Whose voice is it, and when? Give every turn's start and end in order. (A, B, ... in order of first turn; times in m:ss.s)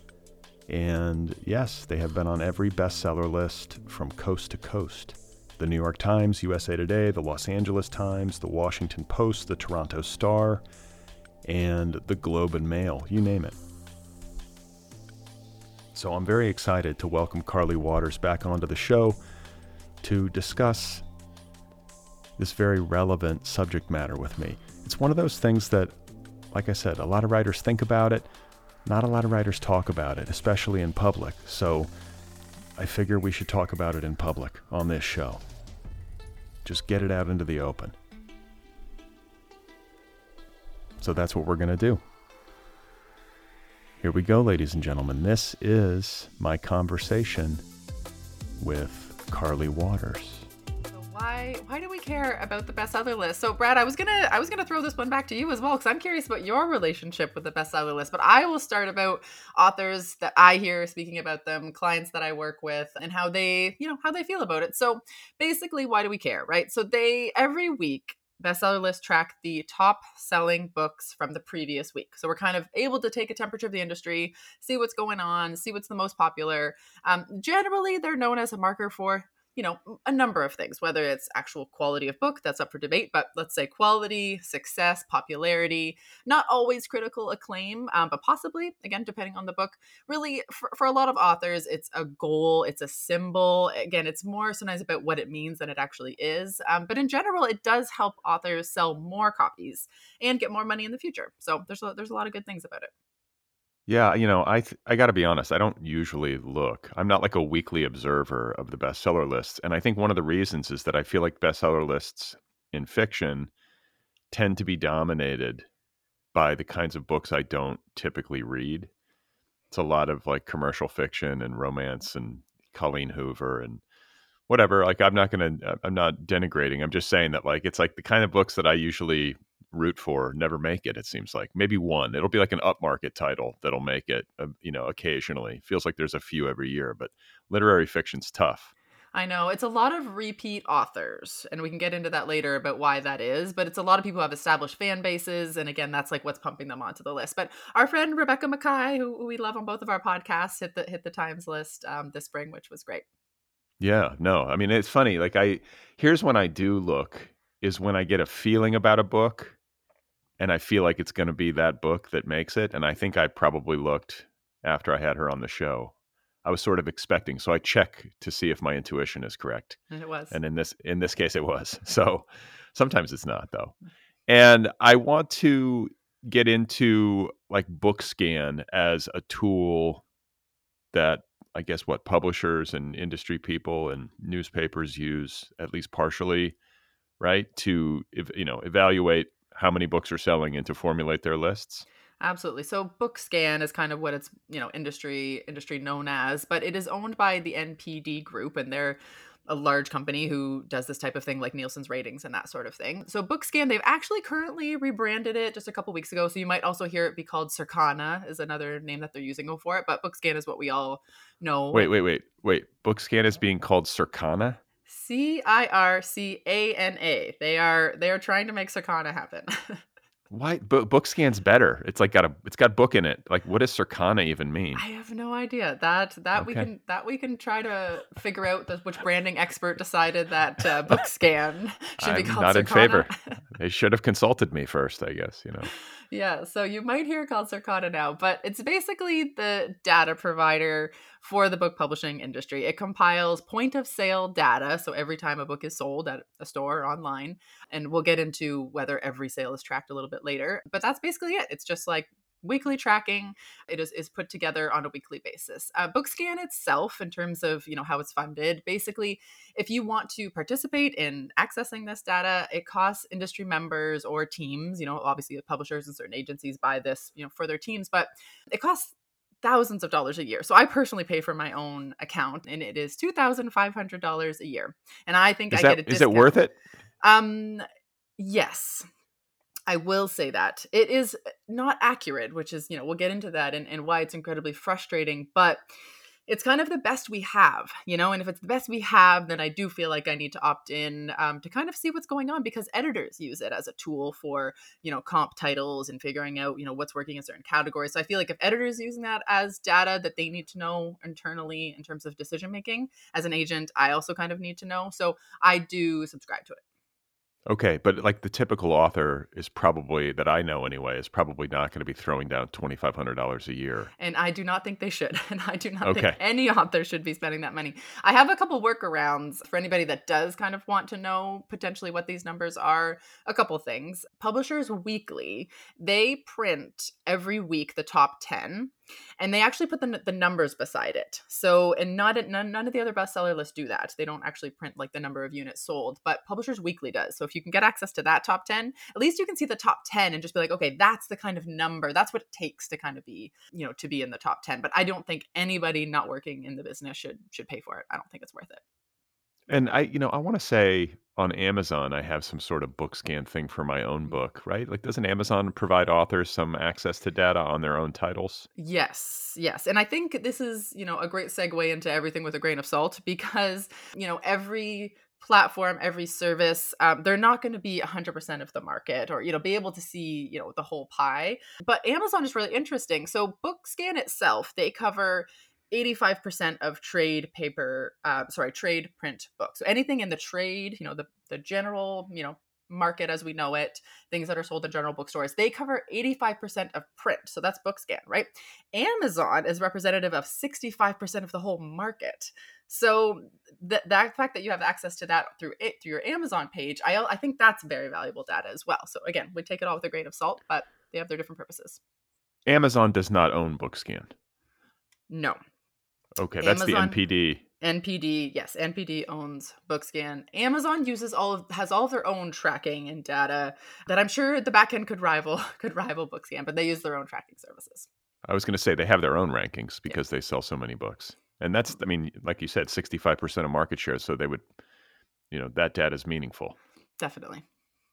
0:00.7-0:10.6 A
0:11.4-0:13.6 A
0:15.9-0:19.2 A
0:20.0-0:21.0 A
0:22.4-0:25.9 A
0:26.5-0:28.3 A
0:28.8-0:31.9 A
0:32.8-0:35.4 A
0:36.6-0:38.0 A
0:41.0-0:42.0 A
0:44.0-0:47.6 A
0:48.6-0:50.5 A
0:50.9-1:42.9 B
1:43.9-1:53.5 A
1:54.3-1:55.7 A
1:56.3-1:58.9 A
1:59.7-2:03.8 A
2:04.5-2:18.7 A
2:19.1-2:33.1 B
2:33.8-2:39.6 A
2:40.4-2:49.8 A
2:49.9-2:50.4 B
2:50.3-2:53.8 A
2:54.3-3:00.0 A
3:00.9-3:06.6 A
3:07.2-3:11.9 A
3:12.2-3:31.9 B
3:31.7-3:34.6 A
3:34.9-3:39.8 B
3:40.3-3:44.8 A
3:44.8-3:53.3 B
3:46.4-3:46.7 A
3:52.0-3:55.7 A
3:56.1-4:36.4 B
4:35.5-4:36.6 A
4:37.0-4:37.6 B
4:38.2-4:38.8 B
4:39.7-4:45.6 B
4:46.3-5:06.6 B
5:07.5-5:13.9 A
5:14.0-5:48.6 B
5:15.8-5:16.2 A
5:49.5-5:58.5 A
5:58.6-6:41.8 B
6:42.5-6:44.1 A
6:45.1-6:45.4 B
6:46.2-6:47.4 A
6:46.4-6:47.0 B
6:47.6-6:57.9 B
6:58.2-7:04.4 A
7:05.3-7:06.6 A
7:07.0-7:07.4 B